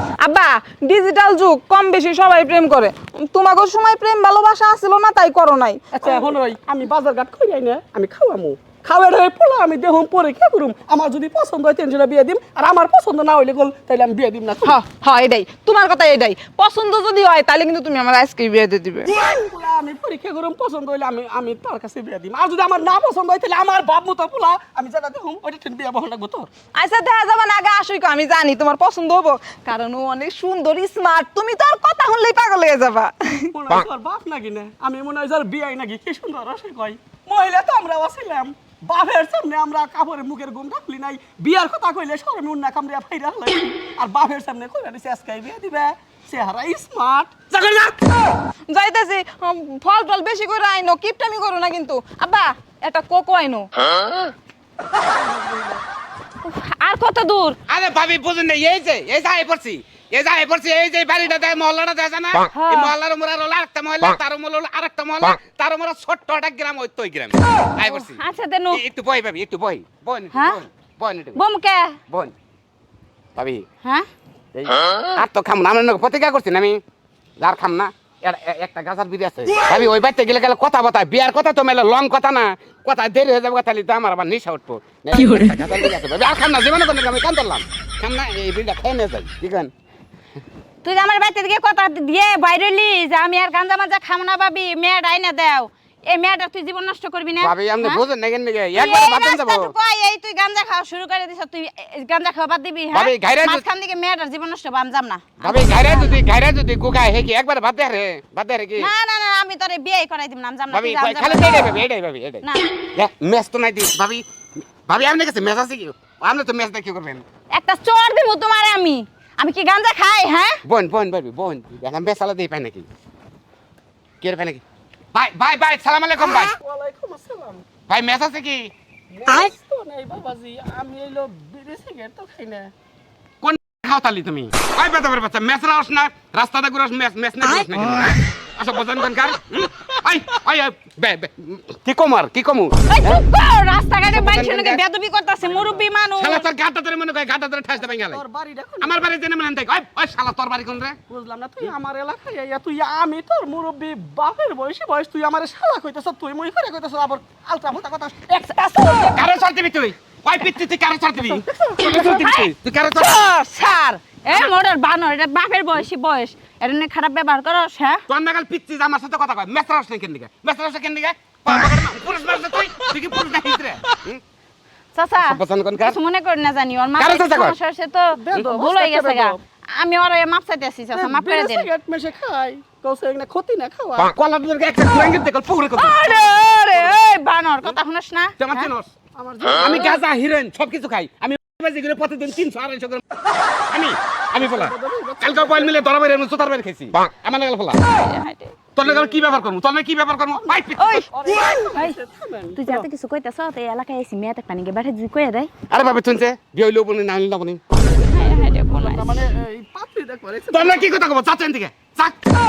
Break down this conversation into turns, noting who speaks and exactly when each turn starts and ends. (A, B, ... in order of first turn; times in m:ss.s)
0:00.2-0:06.3 A
0:05.9-0:14.8 B
0:14.6-0:19.1 A
0:19.2-0:26.5 B
0:26.8-0:33.5 A
0:33.5-0:47.5 B
0:47.6-0:47.9 A
0:48.7-0:53.7 A
0:55.0-0:55.8 B
0:56.4-0:57.6 C
0:57.7-1:08.2 D
1:02.5-1:02.9 C
1:07.9-1:08.8 C
1:08.7-1:11.4 D
1:10.3-1:10.6 C
1:11.4-1:12.0 C
1:13.4-1:13.6 D
1:14.6-1:16.8 D
1:17.4-1:29.7 D
1:30.8-1:38.0 C
1:37.4-1:39.7 D
1:38.8-1:46.2 C
1:42.9-1:43.6 D
1:45.4-1:48.9 D
1:48.8-1:51.8 C
1:50.7-1:57.2 D
1:52.4-1:52.7 C
1:57.5-2:00.6 C
2:00.6-2:02.9 D
2:04.2-2:04.6 D
2:05.1-2:06.6 D
2:06.2-2:07.6 B
2:07.9-2:08.7 D
2:09.1-2:12.7 B
2:13.4-2:23.2 D
2:22.9-2:26.5 C
2:24.0-2:24.8 D
2:25.5-2:25.8 B
2:26.2-2:28.2 D
2:27.8-2:29.0 B
2:28.8-2:31.0 D
2:31.1-2:39.2 B
2:38.4-2:39.1 C
2:39.1-2:43.3 D
2:41.2-2:42.0 B
2:41.9-2:48.0 C
2:48.1-2:54.2 D
2:55.0-3:01.7 C
2:55.2-2:56.0 D
2:57.0-2:57.6 D
2:58.1-2:59.4 B
3:00.9-3:04.1 B
3:04.0-3:06.3 D
3:05.8-3:08.7 C
3:08.4-3:08.9 D
3:09.2-3:10.0 B
3:09.6-3:13.0 D
3:13.6-3:17.8 D
3:14.4-3:15.8 B
3:17.9-3:18.6 C
3:18.8-3:21.1 D
3:18.8-3:19.3 B
3:20.3-3:22.9 B
3:20.8-3:22.0 C
3:22.6-3:25.5 C
3:25.7-3:27.6 D
3:28.1-3:29.2 C
3:28.1-3:30.9 B
3:30.5-3:32.2 D